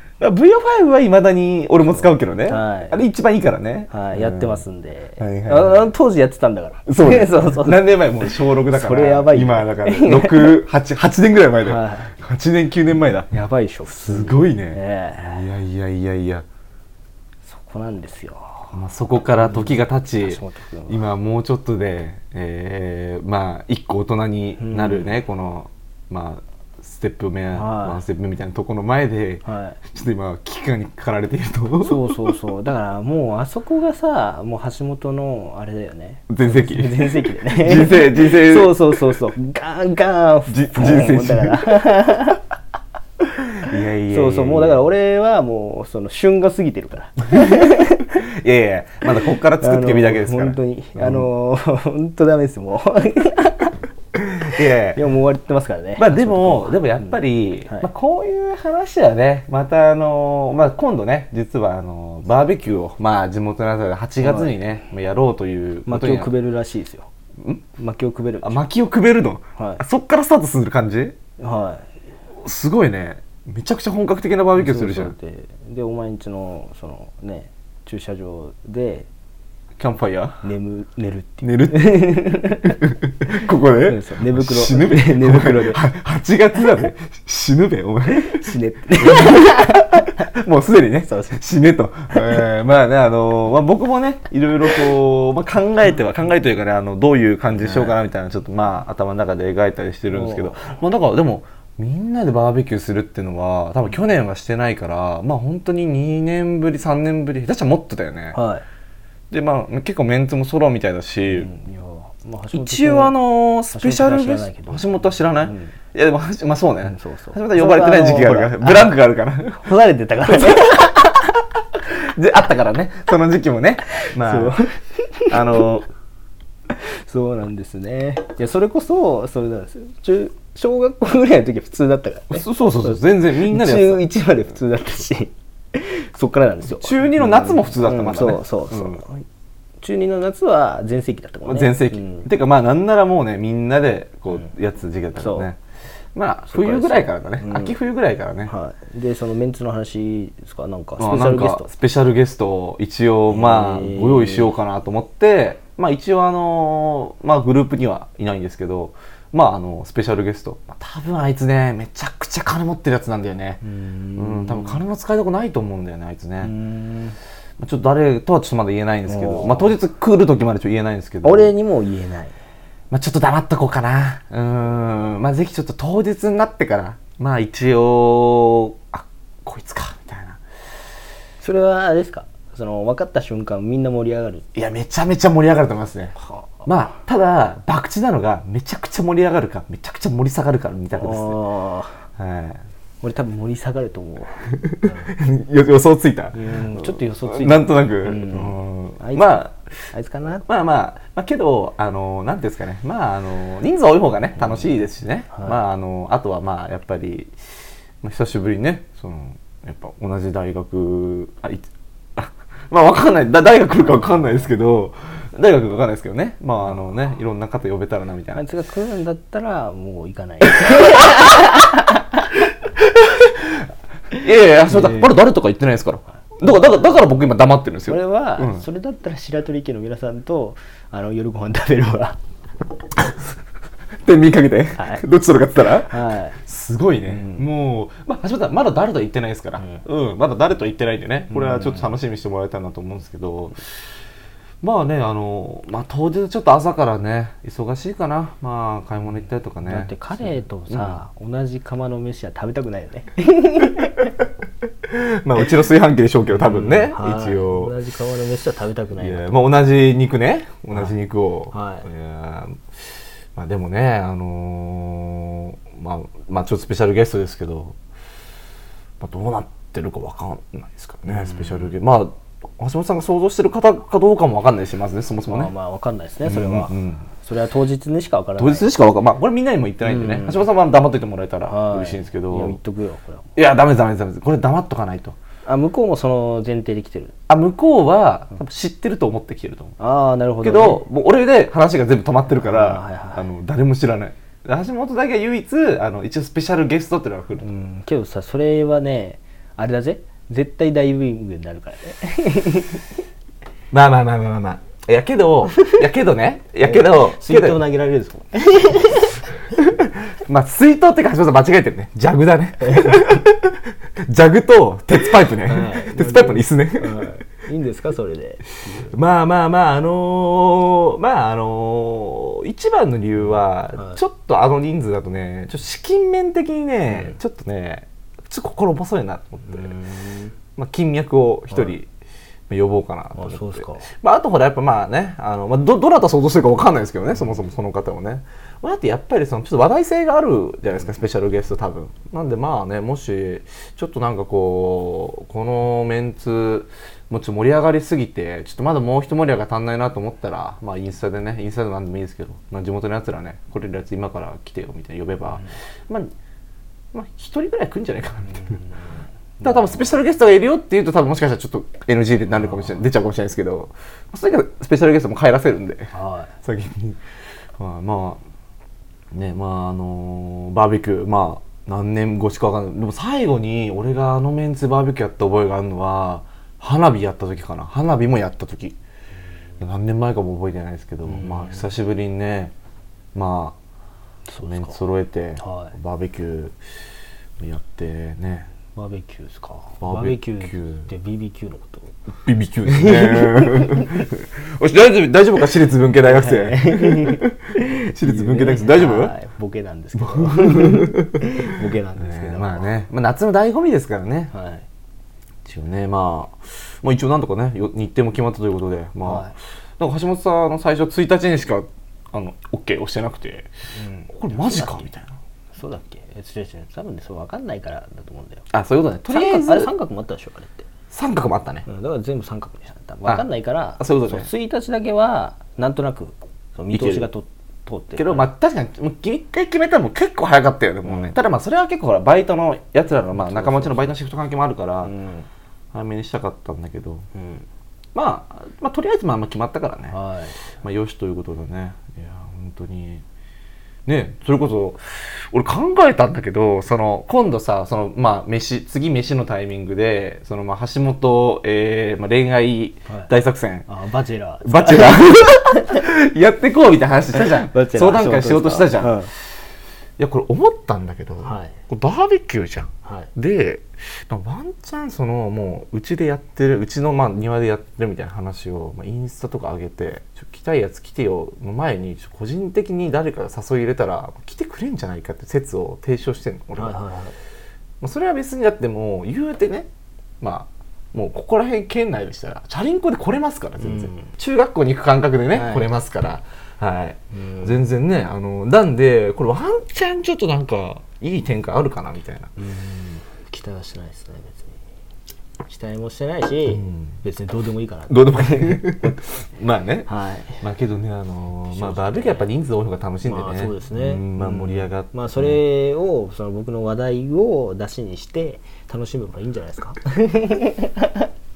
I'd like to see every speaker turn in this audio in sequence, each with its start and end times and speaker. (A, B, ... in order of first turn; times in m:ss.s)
0:00.2-0:04.6 A
0:01.9-0:03.0 B
0:03.9-0:10.6 B
0:05.2-0:05.9 A
0:06.9-0:13.3 A
0:11.6-0:12.1 B
0:13.3-0:15.5 B
0:13.8-0:16.4 A
0:17.4-0:18.8 B
0:18.7-0:32.3 A
0:19.4-0:21.1 B
0:24.6-0:25.1 B
0:27.5-0:28.0 B
0:29.4-0:29.8 B
0:31.8-0:42.4 B
0:36.3-0:38.8 A
0:40.5-0:41.8 A
0:43.6-0:44.8 A
0:44.1-0:48.2 B
0:47.3-0:51.3 A
0:49.2-0:53.8 B
0:54.2-0:55.0 A
0:54.9-0:57.1 B
0:56.0-1:06.3 A
1:04.2-1:04.5 B
1:05.9-1:07.1 B
1:07.8-1:08.6 B
1:08.4-1:11.2 A
1:09.6-1:09.8 B
1:11.4-1:11.9 B
1:12.4-1:15.1 A
1:14.6-1:19.1 B
1:19.8-1:20.4 A
1:20.4-1:22.9 B
1:21.4-1:28.4 A
1:23.8-1:25.8 B
1:28.1-1:30.3 B
1:29.0-1:48.4 A
1:31.0-1:31.4 B
1:37.6-1:38.0 B
1:40.1-1:40.8 B
1:48.3-1:48.6 B
1:49.3-1:51.5 A
1:51.3-1:53.2 B
1:52.5-1:59.7 A
1:53.7-1:55.7 B
1:56.8-1:58.9 B
1:59.6-2:01.2 B
2:00.3-2:00.9 A
2:01.8-2:04.6 A
2:04.0-2:05.7 B
2:05.3-2:05.9 A
2:06.7-2:19.2 B
2:12.3-2:14.0 A
2:16.7-2:19.0 A
2:19.8-2:22.3 B
2:21.5-2:25.6 A
2:25.2-2:25.5 B
2:26.1-2:28.5 A
2:26.5-2:27.7 B
2:28.4-2:31.7 B
2:31.0-2:43.6 A
2:33.3-2:34.5 B
2:43.6-2:44.8 B
2:44.2-2:46.5 A
2:46.4-2:47.2 B
2:47.6-2:51.5 A
2:49.0-2:49.7 B
2:51.2-2:52.3 B
2:52.9-3:00.4 A
3:01.4-3:04.5 B
3:04.5-3:11.4 A
3:06.2-3:06.9 B
3:10.9-3:12.0 B
3:12.2-3:12.6 A
3:13.0-3:15.1 B
3:14.6-3:19.6 A
3:16.3-3:20.4 B
3:20.4-3:27.3 A
3:24.4-3:24.7 B
3:25.3-3:25.6 B
3:28.0-3:38.4 A
3:34.0-3:34.3 B
3:38.3-3:42.3 B
3:40.7-3:41.0 A
3:43.0-3:48.6 A
3:44.7-3:45.1 B
3:46.4-3:47.1 B
3:47.9-3:52.2 B
3:54.0-4:03.8 A
3:54.8-3:55.0 B
3:55.8-3:56.4 B
3:57.0-3:57.5 B
3:59.6-3:59.8 B
4:01.3-4:01.9 B
4:04.6-4:11.0 A
4:09.6-4:14.1 B
4:14.8-4:17.7 A
4:16.3-4:19.4 B
4:19.0-4:22.6 A
4:21.5-4:21.9 B
4:23.3-4:27.8 A
4:29.0-4:35.5 A
4:31.0-4:31.8 B
4:35.3-4:38.7 B
4:36.2-4:37.1 A
4:38.4-4:42.6 A
4:39.8-4:40.5 B
4:41.5-4:43.3 B
4:43.4-4:45.2 A
4:45.4-4:47.1 B
4:47.3-4:49.8 A
4:49.8-4:50.8 B
4:50.4-4:57.4 A
4:52.4-4:53.3 B
4:57.4-5:02.8 B
5:03.7-5:07.6 A
5:06.6-5:09.3 B
5:09.5-5:17.1 A
5:12.6-5:13.1 B
5:15.4-5:19.0 B
5:18.9-5:29.7 A
5:26.9-5:27.2 B
5:29.4-5:30.3 B
5:30.6-5:31.9 A
5:32.5-5:56.1 A
5:33.1-5:33.9 B
5:56.9-5:58.6 A
5:58.2-5:59.9 B
5:59.4-6:05.9 A
6:02.4-6:02.7 B
6:05.9-6:06.3 B
6:06.4-6:07.0 A
6:07.6-6:08.2 A
6:09.1-6:18.8 A
6:19.6-6:22.5 A
6:21.0-6:21.7 B
6:23.1-6:23.6 A
6:24.3-6:24.8 B
6:24.4-6:26.6 A
6:25.4-6:25.8 B
6:27.4-6:28.5 A
6:28.7-6:31.9 B
6:29.8-6:30.9 A
6:32.1-6:39.1 A
6:32.6-6:34.0 B
6:36.0-6:42.7 B
6:40.0-6:41.4 A
6:42.0-6:44.3 A
6:44.3-6:44.6 B
6:45.4-6:53.5 A
6:49.0-6:49.3 B
6:53.7-6:54.9 B
6:54.1-6:55.2 A
6:55.5-6:58.5 B
6:58.5-6:59.7 A
6:59.1-7:00.6 B
7:00.9-7:01.6 A
7:01.7-7:08.2 B
7:03.8-7:04.3 A
7:06.7-7:07.1 A
7:08.0-7:14.9 A
7:10.8-7:11.1 B
7:13.1-7:13.9 B
7:14.8-7:15.3 B
7:15.7-7:17.0 A
7:17.1-7:17.4 B
7:17.9-7:20.0 A
7:19.9-7:20.4 B
7:20.6-7:23.0 A
7:23.8-7:33.7 A
7:33.7-7:35.8 B
7:34.4-7:39.1 A
7:37.2-7:39.1 B
7:40.0-7:56.8 A
7:41.2-7:41.6 B
7:42.8-7:43.1 B
7:56.6-7:57.1 B
7:57.8-7:59.7 A
8:00.2-8:12.3 A
8:03.6-8:04.1 B
8:05.3-8:05.7 B
8:07.1-8:07.6 B
8:12.4-8:14.6 B
8:15.5-8:19.0 B
8:16.5-8:16.9 A
8:17.9-8:19.9 A
8:19.9-8:20.4 B
8:20.4-8:25.4 A
8:21.5-8:22.3 B
8:23.0-8:31.1 B